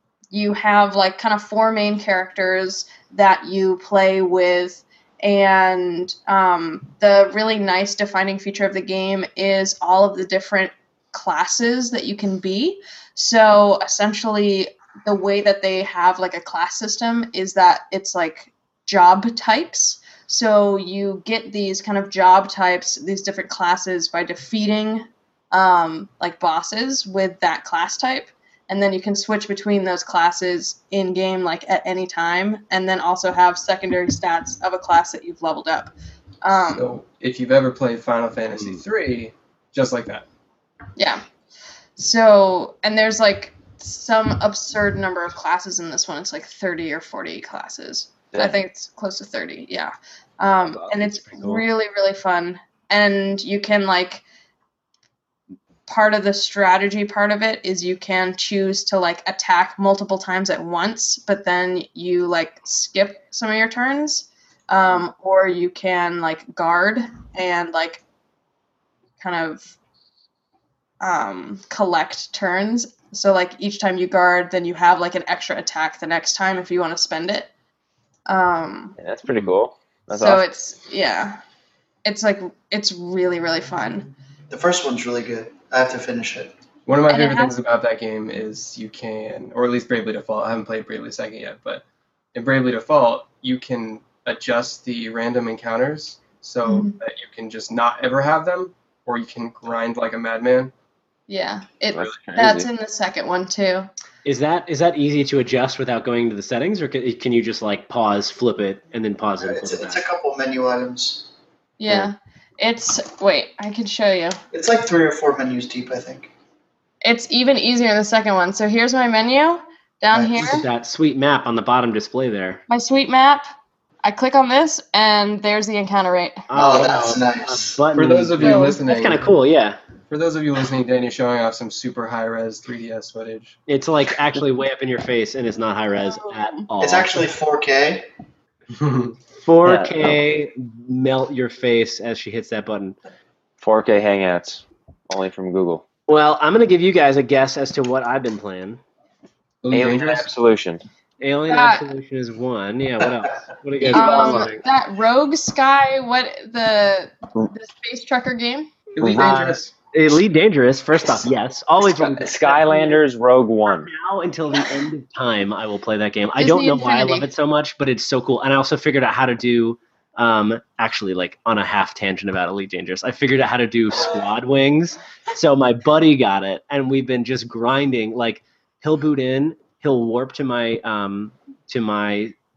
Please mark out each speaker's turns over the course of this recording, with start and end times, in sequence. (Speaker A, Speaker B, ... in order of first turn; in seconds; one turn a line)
Speaker A: 0.3-36.9
Speaker B: 36.7-40.2
Speaker A: 41.0-41.2
Speaker A: 42.0-54.2
Speaker C: 48.3-48.6
Speaker D: 51.0-51.7
Speaker A: 55.9-68.0
Speaker A: 69.2-69.8
Speaker A: 71.0-77.5
Speaker A: 78.3-79.0
Speaker C: 79.0-80.4
Speaker A: 80.1-81.4
Speaker A: 82.0-84.1
Speaker E: 84.5-86.5
Speaker B: 86.9-91.8
Speaker A: 87.1-87.6
Speaker B: 92.3-100.7
Speaker A: 96.6-97.0
Speaker A: 101.3-103.9
Speaker C: 101.9-102.7
Speaker D: 104.2-110.0
Speaker E: 109.4-111.3
Speaker A: 111.8-114.4
Speaker E: 114.5-116.3
Speaker A: 117.0-120.7
Speaker E: 120.1-120.6
Speaker D: 120.4-122.6
Speaker A: 122.7-123.4
Speaker A: 124.0-126.5
Speaker D: 126.5-129.8
Speaker E: 126.5-127.8
Speaker B: 127.9-129.2
Speaker A: 128.4-128.8
Speaker B: 130.1-133.6
Speaker D: 133.7-137.3
Speaker A: 135.9-136.7
Speaker E: 136.8-138.1
Speaker B: 138.7-139.1
Speaker D: 139.4-143.0
Speaker C: 139.6-140.2
Speaker C: 143.6-145.9
Speaker D: 146.1-148.8
Speaker B: 149.6-150.3
Speaker C: 149.7-150.8
Speaker D: 151.2-154.6
Speaker A: 151.5-151.9
Speaker A: 153.9-158.9
Speaker B: 158.9-159.7
Speaker C: 159.0-159.4
Speaker D: 159.2-163.0
Speaker C: 161.8-163.9
Speaker D: 163.7-182.3
Speaker A: 166.4-167.3